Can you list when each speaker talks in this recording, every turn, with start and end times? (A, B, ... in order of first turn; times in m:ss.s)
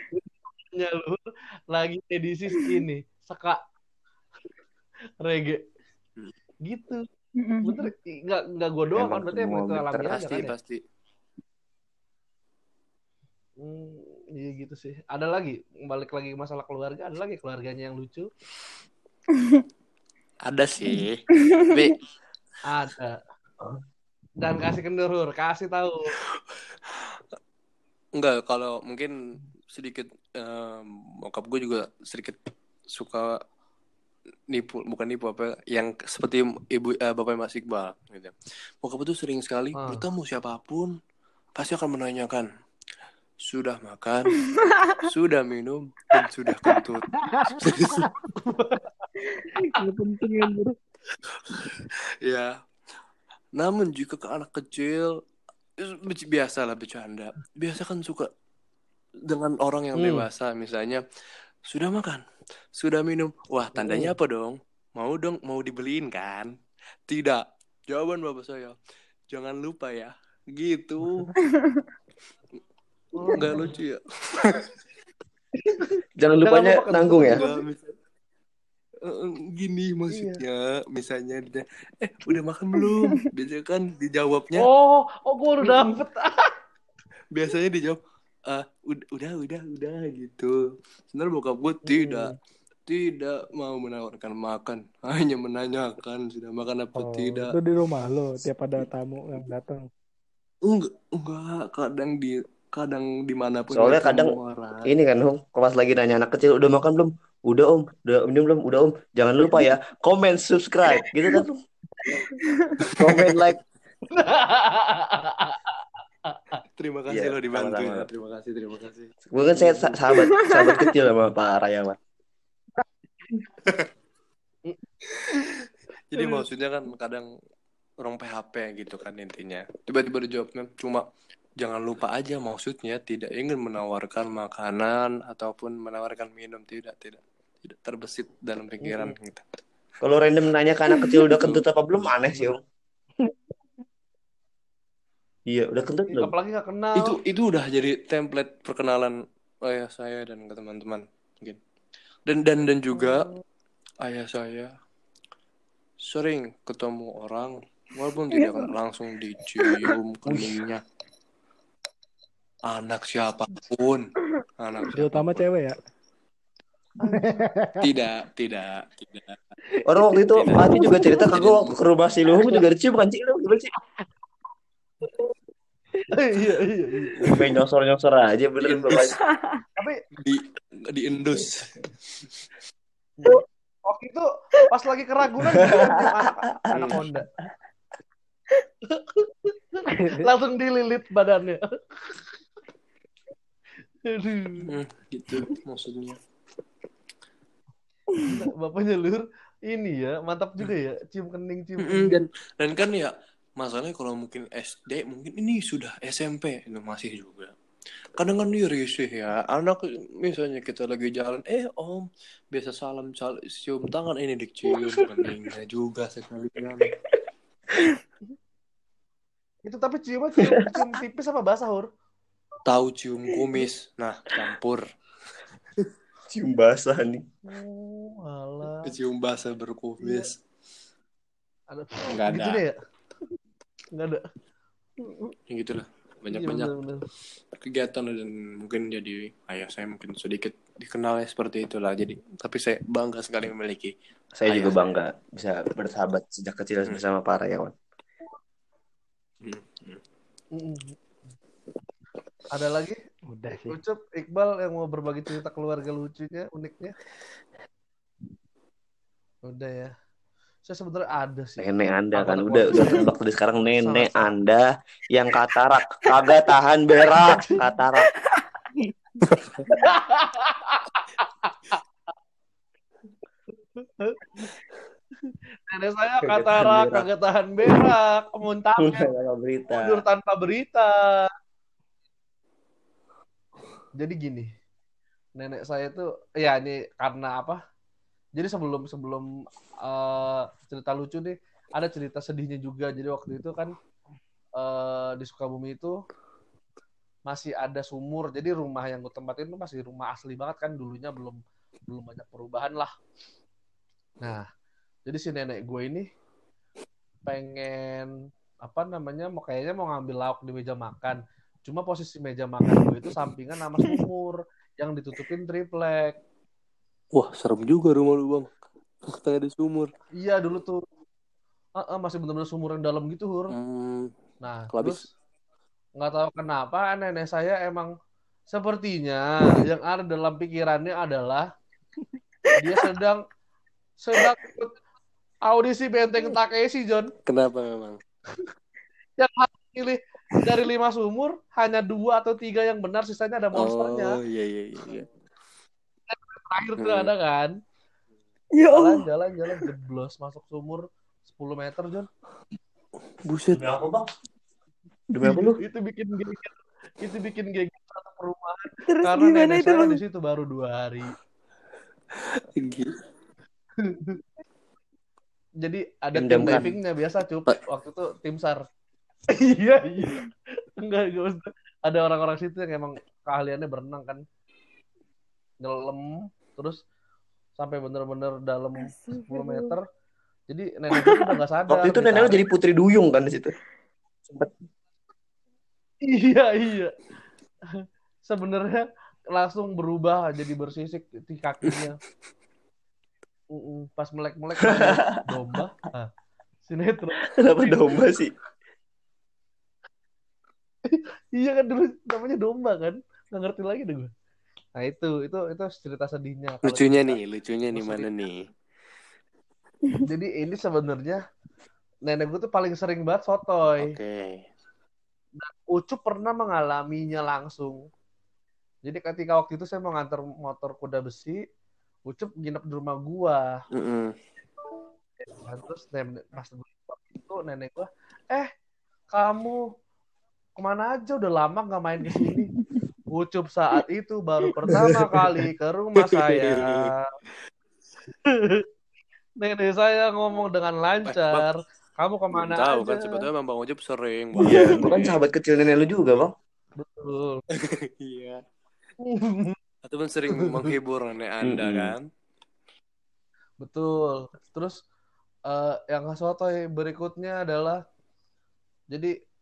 0:00.1-0:03.6 A
0:05.2-0:05.6 A
0:06.6-0:07.1 A
0:07.4-0:07.9 B
0:07.6-0:10.5 A
0:08.9-0:10.3 C
0:10.1-0:10.8 D
0:13.6-0:18.3 A
0:20.4-0:22.0 D
0:21.4-0:21.9 B
0:22.6-0:23.2 A
0:24.4-0:26.1 A
0:28.2-0:29.1 D
0:29.7-0:32.4 D
0:32.9-0:33.4 D
0:34.5-0:40.9 D
0:39.8-0:40.0 A
0:41.6-0:42.5 D
0:43.5-0:44.4 D
0:44.6-0:44.9 B
0:45.0-0:48.1 D
0:47.1-0:47.8 E
0:48.4-0:48.9 A
0:51.4-0:52.5 D
0:53.6-0:55.1 D
0:55.8-0:58.3 D
0:59.2-1:01.0 D
1:00.0-1:00.2 A
1:01.7-1:02.2 D
1:02.8-1:06.5 D
1:03.8-1:04.1 A
1:07.1-1:08.7 D
1:09.3-1:11.3 D
1:11.5-1:11.8 B
1:13.1-1:13.7 A
1:13.3-1:14.7 D
1:15.6-1:15.8 A
1:16.2-1:17.4 C
1:16.4-1:17.5 A
1:17.2-1:17.9 D
1:19.0-1:24.7 D
1:20.1-1:20.4 A
1:24.5-1:26.5 A
1:27.3-1:30.6 D
1:31.1-1:32.3 D
1:31.8-1:32.3 A
1:32.9-1:37.5 D
1:37.0-1:39.9 E
1:40.6-1:44.9 D
1:43.7-1:44.3 C
1:44.8-1:51.6 C
1:52.9-1:53.3 D
1:53.0-1:53.6 C
1:54.1-1:55.8 A
1:56.3-1:56.6 A
1:56.8-1:59.9 D
1:57.1-1:58.1 C
1:59.3-2:02.0 C
2:00.3-2:00.8 B
2:06.1-2:07.3 D
2:06.2-2:06.4 A
2:08.0-2:11.0 D
2:11.6-2:19.4 D
2:18.8-2:19.1 A
2:20.0-2:22.6 C
2:25.5-2:26.3 C
2:26.1-2:27.2 A
2:27.0-2:29.1 D
2:29.6-2:31.6 D
2:32.3-2:33.3 D
2:34.0-2:34.7 D
2:36.0-2:40.8 D
2:38.3-2:38.7 B
2:42.7-2:45.4 D
2:44.9-2:45.8 E
2:47.0-2:47.4 A
2:47.0-2:47.9 E
2:47.8-2:49.4 D
2:49.9-2:53.7 C
2:50.3-2:51.8 D
2:56.1-2:57.3 A
2:57.2-2:59.2 C
2:58.6-2:59.2 D
2:59.2-2:59.6 B
3:00.2-3:02.3 D
3:03.8-3:07.3 A
3:05.5-3:06.0 C
3:08.9-3:12.2 A
3:09.9-3:10.3 E
3:14.0-3:14.7 A
3:14.6-3:16.2 D
3:18.2-3:22.2 A
3:21.8-3:27.5 D
3:28.2-3:36.9 D
3:39.6-3:41.9 A
3:40.5-3:40.7 C
3:42.6-3:44.8 D
3:46.3-3:47.2 C
3:47.4-3:48.9 A
3:48.8-3:50.4 D
3:50.0-3:50.3 A
3:51.7-3:52.8 A
3:52.1-3:52.6 D
3:53.9-3:54.2 A
3:55.0-3:55.3 A
3:55.5-3:56.7 D
3:56.3-3:57.0 A
3:57.5-4:03.9 D
4:04.4-4:07.7 C
4:04.4-4:04.9 D
4:09.4-4:10.0 D
4:10.5-4:11.0 A
4:12.5-4:13.0 A
4:13.3-4:13.8 E
4:13.6-4:17.0 A
4:19.4-4:19.9 A
4:20.6-4:23.1 A
4:21.6-4:28.1 C
4:23.8-4:24.3 A
4:27.2-4:27.6 A
4:29.7-4:31.8 A
4:33.8-4:34.2 A
4:35.7-4:39.1 A
4:36.2-4:37.1 C
4:38.8-4:40.0 C
4:39.7-4:41.3 A
4:44.0-4:44.5 A
4:45.4-4:47.6 A
4:48.4-4:49.3 A
4:49.8-4:53.7 A
4:54.6-4:56.0 A
4:57.3-5:02.9 A
5:05.1-5:06.1 A
5:07.3-5:08.1 A
5:08.6-5:16.2 A
5:17.1-5:18.5 D
5:19.1-5:19.9 D
5:20.2-5:20.8 A
5:21.8-5:23.5 A
5:23.5-5:24.1 D
5:24.4-5:25.1 A
5:24.7-5:25.0 D
5:26.0-5:27.9 A
5:28.5-5:31.5 A
5:32.6-5:33.2 A
5:34.0-5:34.8 A
5:35.4-5:37.1 A
5:37.2-5:38.0 D
5:39.2-5:44.2 A
5:43.5-5:45.1 D
5:46.1-5:47.6 A
5:46.8-5:47.1 D
5:48.5-5:49.0 B
5:48.7-5:52.1 A
5:53.2-5:53.6 D
5:53.5-5:54.0 C
5:55.1-5:55.6 C
5:55.6-6:01.1 A
5:58.9-6:00.0 B
6:02.6-6:02.9 D
6:03.8-6:04.2 A
6:05.6-6:08.6 A
6:06.1-6:06.7 C
6:09.3-6:14.2 A
6:15.6-6:16.8 A
6:17.6-6:19.8 A
6:18.8-6:19.8 B
6:20.5-6:22.4 A
6:21.0-6:21.3 B
6:21.7-6:23.5 C
6:26.0-6:26.9 A
6:27.8-6:32.0 A
6:33.5-6:36.1 A
6:34.6-6:35.2 C
6:36.6-6:38.0 A
6:37.2-6:38.3 C
6:40.9-6:44.1 A
6:44.8-6:47.2 A
6:46.6-6:48.4 D
6:47.7-6:48.1 A
6:50.0-6:51.2 A
6:52.0-6:54.0 A
6:53.8-6:54.4 D
6:55.4-6:57.9 A
6:58.8-7:01.4 A
7:02.1-7:03.6 A
7:03.7-7:04.1 D
7:05.2-7:08.5 A
7:09.1-7:09.6 A
7:10.6-7:12.5 A
7:13.1-7:17.0 A
7:16.1-7:16.9 D
7:18.2-7:18.6 A
7:19.4-7:23.2 A
7:21.0-7:21.5 D
7:22.3-7:25.2 D
7:24.4-7:24.9 A
7:24.4-7:26.3 C
7:26.8-7:27.4 A
7:27.5-7:28.4 D
7:29.0-7:29.6 A
7:29.9-7:32.0 D
7:30.3-7:30.7 A
7:31.4-7:31.9 C
7:33.6-7:34.8 A
7:35.5-7:37.8 A